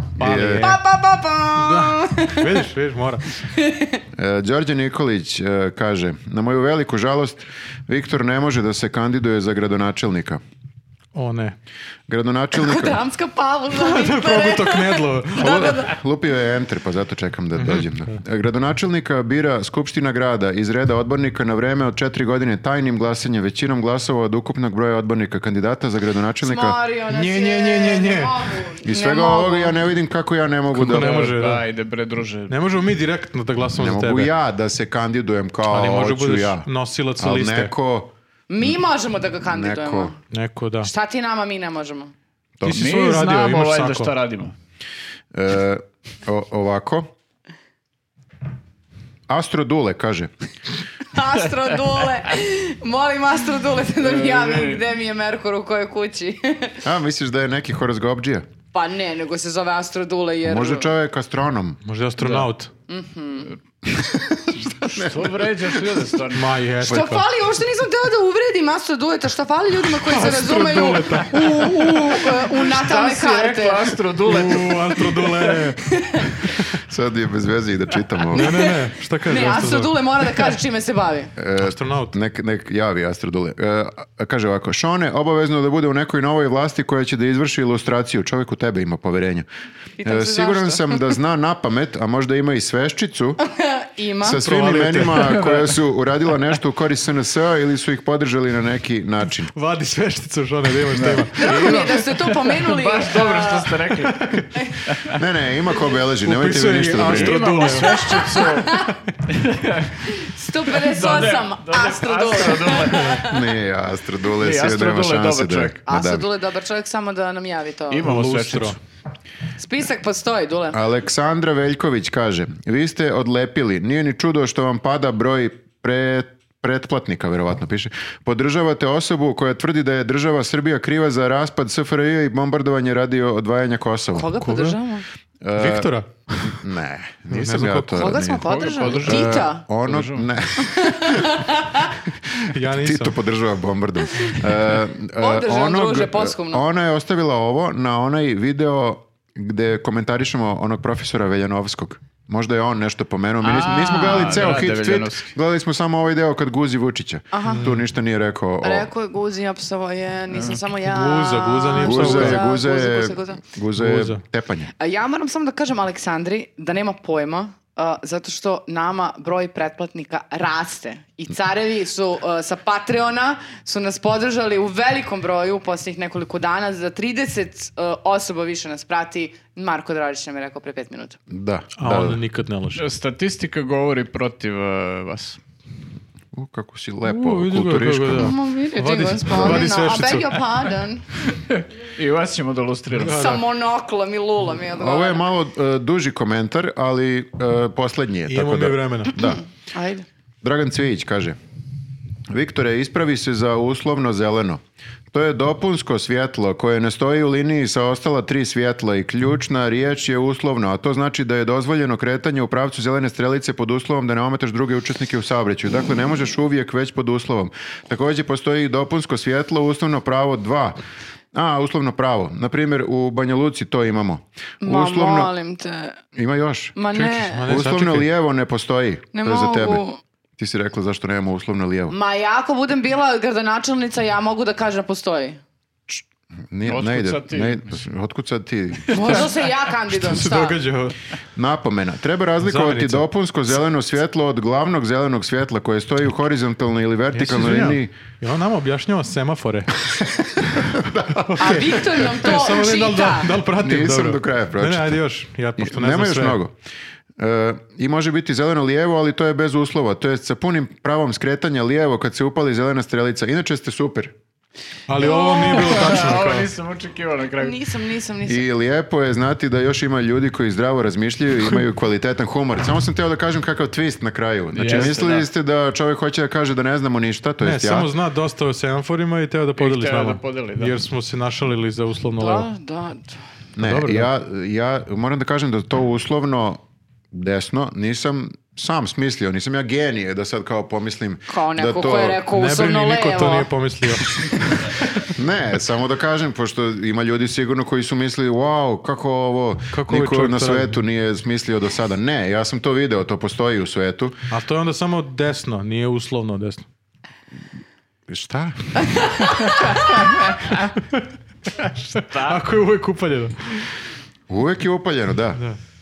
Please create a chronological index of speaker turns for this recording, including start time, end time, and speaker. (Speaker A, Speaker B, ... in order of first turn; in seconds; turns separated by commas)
Speaker A: 0.2-0.8, Speaker B: 0.2-0.8, Speaker C: 0.6-2.7, Speaker A: 1.6-3.3, Speaker C: 3.4-4.0, Speaker B: 4.2-10.4, Speaker A: 11.1-11.6, Speaker B: 12.1-13.0, Speaker C: 12.6-16.0, Speaker A: 13.7-15.8, Speaker B: 15.4-26.8, Speaker A: 17.6-18.2, Speaker C: 26.4-29.8, Speaker A: 27.1-28.5, Speaker B: 28.8-31.1, Speaker A: 30.7-31.6, Speaker D: 30.8-32.6, Speaker A: 32.5-34.3, Speaker B: 33.8-38.8, Speaker A: 35.7-37.7, Speaker C: 38.5-40.2, Speaker B: 39.4-40.1, Speaker A: 40.3-40.9, Speaker C: 40.8-42.1, Speaker A: 42.6-44.1, Speaker D: 42.7-44.5, Speaker B: 45.3-47.1, Speaker B: 49.3-50.3, Speaker C: 51.1-56.8, Speaker D: 54.0-54.8, Speaker B: 56.8-58.5, Speaker C: 58.7-60.9, Speaker B: 60.4-61.8, Speaker A: 61.9-62.7, Speaker D: 62.2-62.5, Speaker C: 62.9-63.5, Speaker B: 63.9-65.5, Speaker D: 64.7-66.6, Speaker A: 66.3-67.2, Speaker C: 66.8-74.0, Speaker A: 70.0-72.2, Speaker D: 72.6-75.7, Speaker A: 74.2-75.8, Speaker C: 75.9-76.4, Speaker B: 76.7-78.6, Speaker A: 78.3-79.9, Speaker C: 78.3-81.3, Speaker B: 81.4-89.5, Speaker A: 81.6-82.2, Speaker C: 90.0-91.2, Speaker B: 90.0-93.4, Speaker C: 93.4-94.4, Speaker B: 94.2-99.5, Speaker A: 94.4-95.7, Speaker D: 95.2-95.6, Speaker A: 99.5-101.8, Speaker D: 100.9-105.2, Speaker C: 101.4-103.8, Speaker A: 104.0-104.5, Speaker B: 105.1-107.6, Speaker A: 106.1-109.1, Speaker D: 107.0-110.0, Speaker C: 108.0-109.0, Speaker C: 110.0-113.4, Speaker D: 110.8-113.2, Speaker B: 113.2-116.3, Speaker D: 114.4-115.8, Speaker C: 115.9-118.1, Speaker D: 117.9-118.8, Speaker A: 118.0-118.8, Speaker C: 119.6-120.8, Speaker B: 120.7-134.4, Speaker C: 134.1-135.1, Speaker A: 134.4-134.8, Speaker B: 135.4-135.9, Speaker A: 135.6-136.7, Speaker B: 136.5-141.5, Speaker A: 137.3-138.2, Speaker C: 137.9-139.7, Speaker D: 138.4-140.3, Speaker C: 140.6-141.9, Speaker B: 142.0-158.9, Speaker A: 142.5-143.2, Speaker C: 144.1-144.4, Speaker C: 145.2-146.6, Speaker D: 153.4-155.3, Speaker C: 157.3-157.7, Speaker A: 157.4-157.8, Speaker C: 158.6-163.4, Speaker D: 160.3-160.6, Speaker A: 160.8-162.4, Speaker B: 161.8-164.7, Speaker A: 163.8-164.2, Speaker C: 164.8-181.2, Speaker B: 181.3-182.2, Speaker A: 181.8-182.8, Speaker D: 182.7-185.4, Speaker B: 186.3-188.4, Speaker A: 187.0-190.4, Speaker C: 188.1-191.1, Speaker B: 189.3-189.8, Speaker D: 191.3-193.4, Speaker C: 193.0-195.3, Speaker A: 193.0-193.4, Speaker B: 194.8-199.4, Speaker A: 198.3-199.2, Speaker C: 199.2-200.1, Speaker B: 200.4-201.4, Speaker B: 202.3-220.8, Speaker B: 221.3-225.3, Speaker C: 224.6-226.0, Speaker B: 226.1-226.8, Speaker C: 226.8-227.5, Speaker A: 226.9-228.1, Speaker B: 227.5-229.8, Speaker C: 229.1-230.0, Speaker B: 230.4-232.0, Speaker C: 231.9-235.4, Speaker B: 235.9-239.3, Speaker D: 236.7-237.8, Speaker D: 238.9-239.3, Speaker C: 238.9-240.6, Speaker A: 239.9-241.0, Speaker B: 241.4-247.9, Speaker A: 242.4-243.1, Speaker A: 247.1-249.7, Speaker B: 249.9-251.8, Speaker A: 251.3-256.4, Speaker C: 251.4-253.3, Speaker B: 253.6-255.0, Speaker B: 255.6-256.6, Speaker B: 257.2-264.1, Speaker A: 264.9-266.5, Speaker C: 265.0-266.1, Speaker D: 265.4-267.6, Speaker C: 267.4-268.5, Speaker B: 268.2-277.9, Speaker D: 274.6-275.3, Speaker A: 274.7-274.9, Speaker A: 277.4-282.5, Speaker D: 279.6-280.8, Speaker C: 282.1-283.2, Speaker B: 283.6-286.6, Speaker A: 283.6-284.1, Speaker B: 287.1-292.3, Speaker C: 291.3-293.5, Speaker A: 292.3-295.1, Speaker B: 295.1-304.2, Speaker A: 299.7-300.8, Speaker A: 304.3-306.6, Speaker B: 308.1-309.0, Speaker C: 308.8-310.2, Speaker D: 311.6-312.4, Speaker A: 312.2-313.7, Speaker B: 314.3-315.4